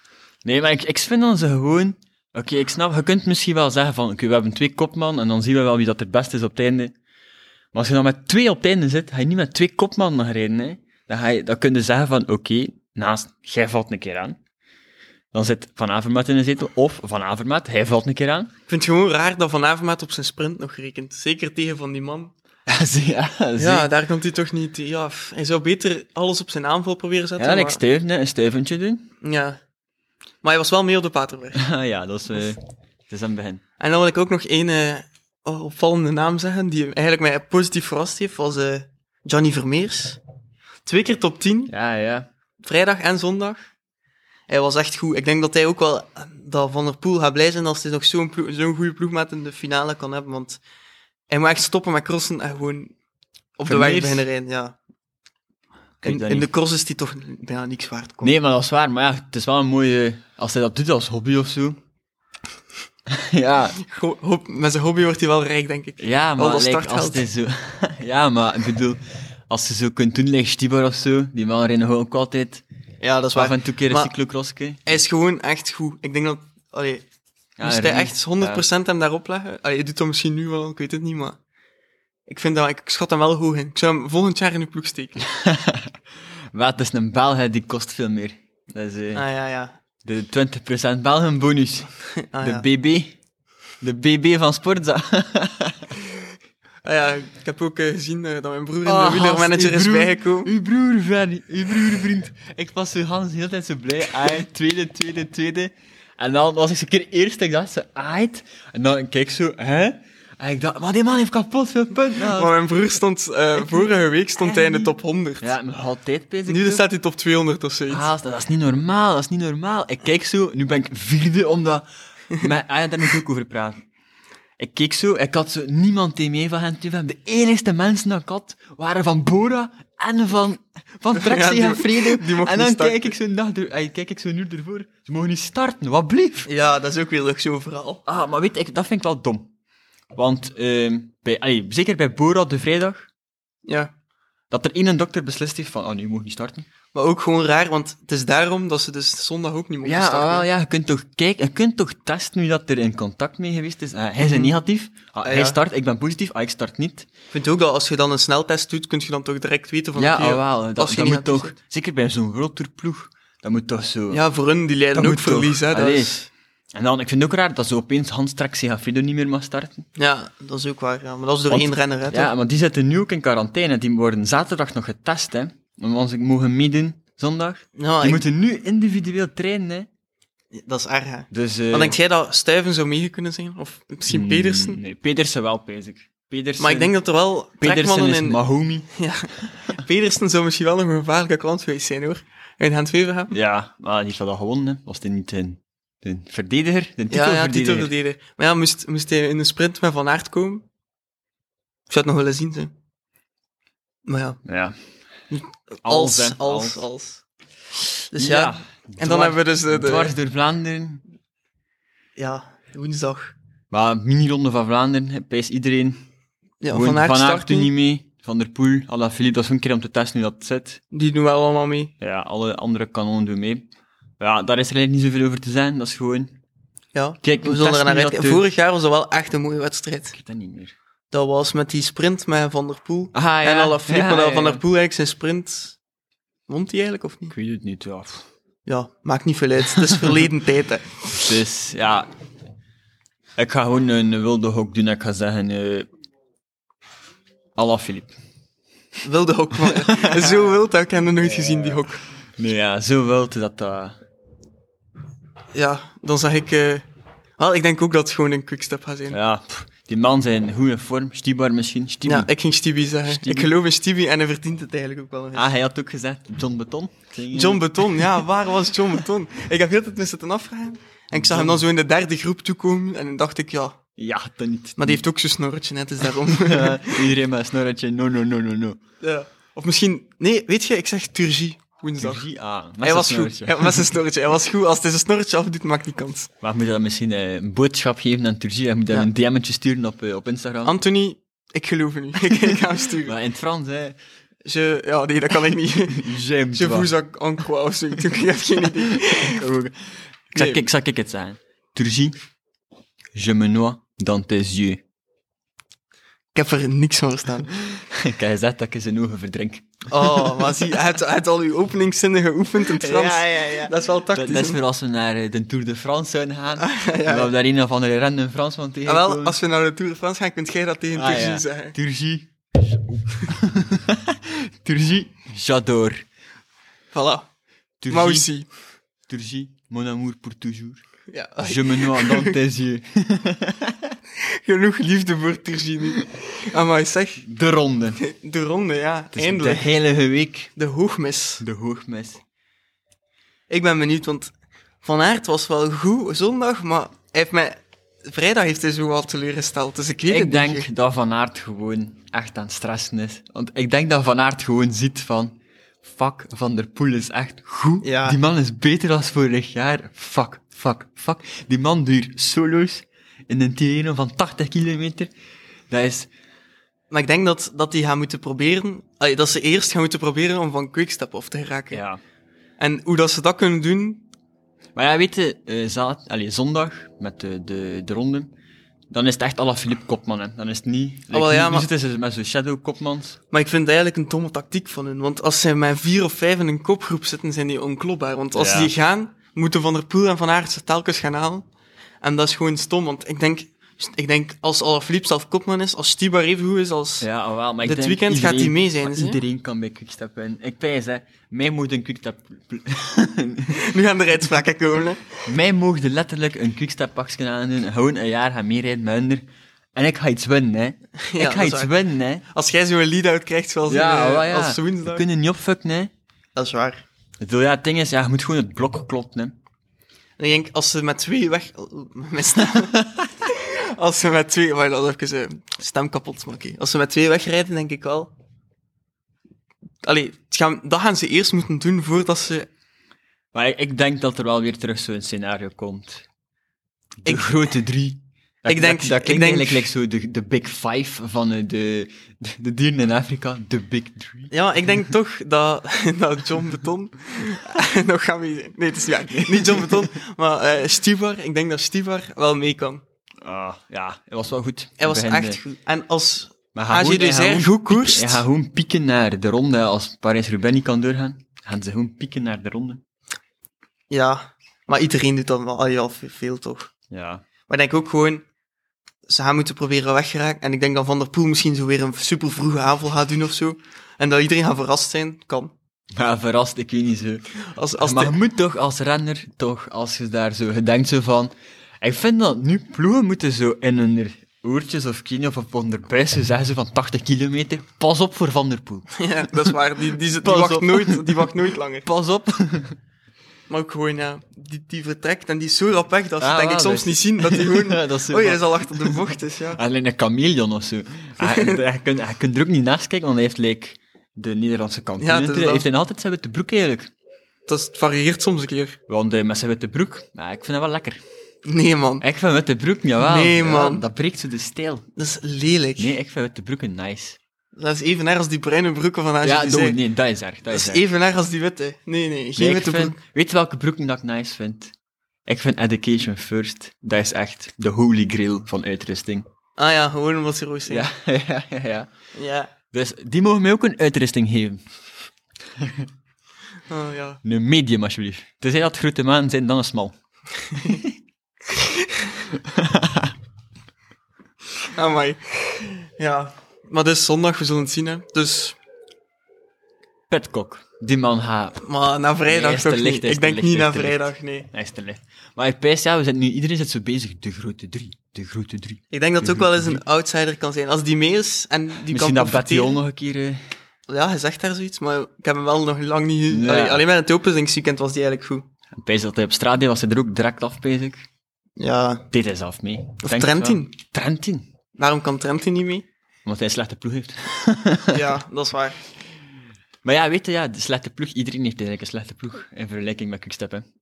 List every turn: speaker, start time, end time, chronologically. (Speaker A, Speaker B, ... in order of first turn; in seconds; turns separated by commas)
Speaker A: 0.4-6.9, Speaker A: 7.7-14.4, Speaker A: 15.3-18.5, Speaker B: 18.7-22.3, Speaker A: 22.7-23.9, Speaker B: 23.6-27.8, Speaker A: 27.4-29.1, Speaker B: 29.2-29.6, Speaker B: 30.4-31.6, Speaker A: 31.6-33.6, Speaker B: 33.8-40.2, Speaker B: 40.9-41.7, Speaker A: 41.7-42.3, Speaker B: 42.6-43.6, Speaker B: 44.5-50.6, Speaker B: 51.3-52.9, Speaker B: 53.6-54.8, Speaker A: 53.7-54.3, Speaker A: 56.0-56.5, Speaker B: 56.0-58.3, Speaker A: 58.2-61.8, Speaker A: 63.1-63.8, Speaker B: 63.8-67.2, Speaker A: 66.0-72.6, Speaker B: 73.0-74.1, Speaker A: 73.3-74.8, Speaker B: 74.8-77.0, Speaker A: 77.6-78.7, Speaker B: 77.6-81.4, Speaker B: 82.3-85.2, Speaker A: 85.3-86.0, Speaker A: 86.5-89.2, Speaker B: 89.1-89.8, Speaker A: 90.0-93.2, Speaker B: 92.2-92.7, Speaker A: 93.8-96.0, Speaker B: 96.8-100.5, Speaker A: 98.8-112.5, Speaker B: 112.2-115.5, Speaker A: 114.4-116.8, Speaker B: 116.5-118.1, Speaker A: 117.9-123.8, Speaker A: 124.6-136.5, Speaker B: 131.1-133.1, Speaker B: 136.5-138.0, Speaker A: 138.1-139.5, Speaker A: 140.1-143.1, Speaker B: 143.7-143.9, Speaker A: 144.5-146.7, Speaker B: 146.9-150.5, Speaker A: 149.8-157.1, Speaker B: 154.2-154.5, Speaker B: 155.2-155.6, Speaker B: 157.3-161.5, Speaker A: 160.0-164.2, Speaker B: 164.1-166.2, Speaker A: 164.9-169.9, Speaker B: 170.0-172.3, Speaker A: 171.5-179.9, Speaker B: 177.8-178.2, Speaker B: 180.6-184.8, Speaker A: 181.3-182.0, Speaker A: 184.1-186.9, Speaker B: 186.6-188.4, Speaker A: 187.6-188.9, Speaker B: 188.9-193.4, Speaker A: 193.3-197.9, Speaker B: 197.1-200.7, Speaker B: 201.9-202.7, Speaker B: 204.1-204.4, Speaker A: 204.5-204.8, Speaker B: 205.3-207.2, Speaker A: 205.8-206.8, Speaker B: 208.1-210.1, Speaker A: 208.2-211.0, Speaker B: 212.2-213.3, Speaker A: 213.7-216.0, Speaker B: 216.6-217.7, Speaker A: 216.7-220.8, Speaker B: 220.9-221.9, Speaker A: 222.0-223.7, Speaker A: 224.2-226.3, Speaker B: 226.9-230.2, Speaker A: 227.2-228.4, Speaker A: 230.1-230.8, Speaker B: 231.1-235.8, Speaker A: 233.1-234.6, Speaker B: 236.5-237.3, Speaker A: 237.3-238.2, Speaker B: 238.7-241.3, Speaker A: 241.1-242.1, Speaker A: 243.4-245.9, Speaker A: 247.6-248.1, Speaker B: 249.0-252.0, Speaker A: 249.7-250.5, Speaker A: 251.2-251.8, Speaker A: 252.4-254.0, Speaker B: 255.6-256.8, Speaker B: 257.4-259.2, Speaker A: 259.1-262.3, Speaker B: 262.1-265.5, Speaker A: 263.1-263.5, Speaker A: 265.4-267.7, Speaker B: 267.3-273.8, Speaker A: 271.1-271.6, Speaker A: 274.0-275.0, Speaker B: 274.8-277.0, Speaker A: 276.2-278.8, Speaker B: 279.0-282.2, Speaker A: 282.0-283.9, Speaker B: 282.8-286.3, Speaker A: 286.4-290.8, Speaker B: 290.6-293.1, Speaker A: 293.0-294.0, Speaker B: 294.4-299.5, Speaker A: 295.9-296.9, Speaker A: 298.9-302.2, Speaker B: 300.3-300.6, Speaker A: 303.1-304.8, Speaker B: 306.4-307.6, Speaker A: 307.7-310.5, Speaker B: 309.9-314.6, Speaker A: 312.6-319.4, Speaker B: 316.6-317.3, Speaker B: 318.9-321.8, Speaker A: 320.9-326.0, Speaker B: 326.9-327.3, Speaker A: 327.8-328.3, Speaker B: 327.9-328.5, Speaker A: 329.1-330.8, Speaker B: 331.1-332.4, Speaker A: 331.4-334.0, Speaker B: 334.2-337.3, Speaker A: 337.2-338.0, Speaker B: 338.0-339.7, Speaker A: 339.1-340.5, Speaker B: 340.6-341.4, Speaker A: 341.4-342.2, Speaker B: 343.5-344.3, Speaker B: 344.8-350.7, Speaker A: 350.1-365.1, Speaker B: 357.8-358.2, Speaker A: 365.7-366.1, Speaker B: 366.9-371.8, Speaker A: 371.7-372.0, Speaker B: 372.6-374.0, Speaker A: 374.8-378.3, Speaker A: 378.9-383.2, Speaker B: 381.1-381.7, Speaker B: 383.3-391.5, Speaker A: 388.4-388.7, Speaker B: 392.0-397.1, Speaker A: 397.0-403.6, Speaker B: 397.6-399.2, Speaker B: 403.5-405.1, Speaker A: 405.2-409.2, Speaker A: 409.8-412.2, Speaker B: 411.0-411.7, Speaker B: 412.3-415.1, Speaker A: 413.7-415.9, Speaker B: 416.4-416.8, Speaker A: 417.2-419.4, Speaker B: 420.2-428.1, Speaker A: 422.6-423.1, Speaker B: 429.8-432.5, Speaker A: 433.3-436.1, Speaker A: 437.0-444.3, Speaker B: 438.5-439.7, Speaker B: 444.3-452.8, Speaker A: 449.2-449.9, Speaker A: 453.2-455.4, Speaker B: 454.8-458.2, Speaker A: 456.6-462.8, Speaker B: 463.9-466.7, Speaker A: 466.9-467.2, Speaker B: 467.5-468.2, Speaker B: 469.1-475.5, Speaker A: 475.9-488.9, Speaker B: 477.5-478.2, Speaker B: 488.9-491.9, Speaker A: 490.2-491.3, Speaker A: 491.9-492.8, Speaker B: 493.5-499.6, Speaker A: 496.2-499.0, Speaker A: 499.6-506.9, Speaker B: 501.2-501.6, Speaker B: 505.0-505.7, Speaker B: 507.5-508.8, Speaker A: 508.9-511.0, Speaker B: 511.5-512.0, Speaker A: 512.0-514.9, Speaker B: 513.0-513.8, Speaker B: 515.0-515.9, Speaker A: 515.8-517.2, Speaker B: 517.6-519.8, Speaker A: 519.2-520.8, Speaker B: 520.5-523.0, Speaker A: 522.4-524.7, Speaker A: 525.3-529.3, Speaker B: 529.6-530.9, Speaker A: 530.7-531.9, Speaker B: 532.1-532.5, Speaker A: 532.7-534.6, Speaker A: 535.6-535.9, Speaker B: 536.7-537.2, Speaker A: 537.2-540.0, Speaker B: 540.5-540.8, Speaker A: 540.6-540.9, Speaker B: 541.5-542.0, Speaker A: 542.3-543.1, Speaker B: 544.8-548.6, Speaker A: 550.1-551.6, Speaker B: 551.6-554.5, Speaker A: 552.3-559.8, Speaker B: 558.9-562.8, Speaker A: 561.9-563.4, Speaker B: 563.9-568.5, Speaker A: 566.3-566.8, Speaker A: 568.7-571.0, Speaker B: 571.6-572.0, Speaker A: 572.1-574.5, Speaker B: 573.0-573.7, Speaker B: 574.8-575.9, Speaker A: 576.2-578.1, Speaker B: 577.9-578.8, Speaker A: 579.8-583.7